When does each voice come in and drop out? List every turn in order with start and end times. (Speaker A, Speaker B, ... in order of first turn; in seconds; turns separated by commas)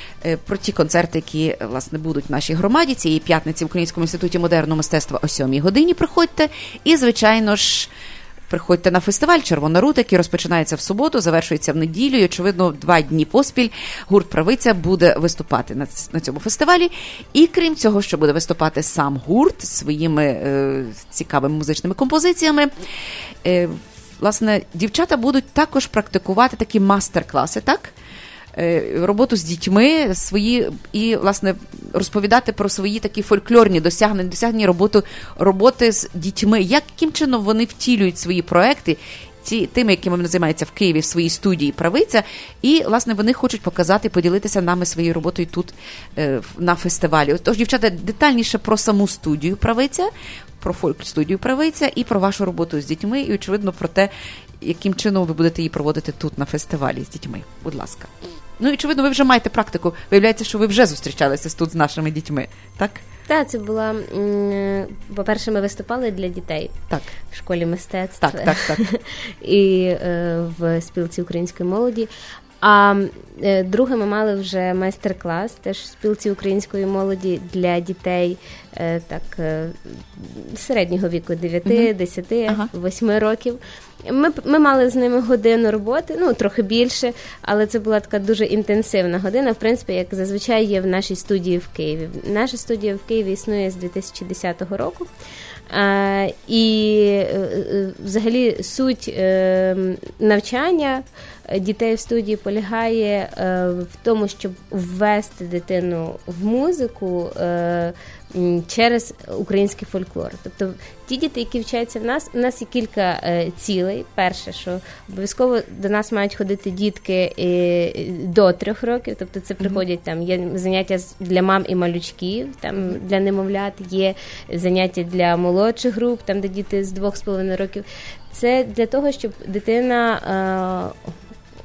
Speaker A: 0.2-7.9, Speaker A: 8.5-22.7, Speaker A: 23.4-27.9, Speaker A: 28.6-50.1, Speaker A: 50.6-63.0, Speaker B: 63.3-72.1, Speaker A: 68.2-68.8, Speaker B: 72.6-95.1, Speaker A: 81.6-81.9, Speaker B: 95.7-130.9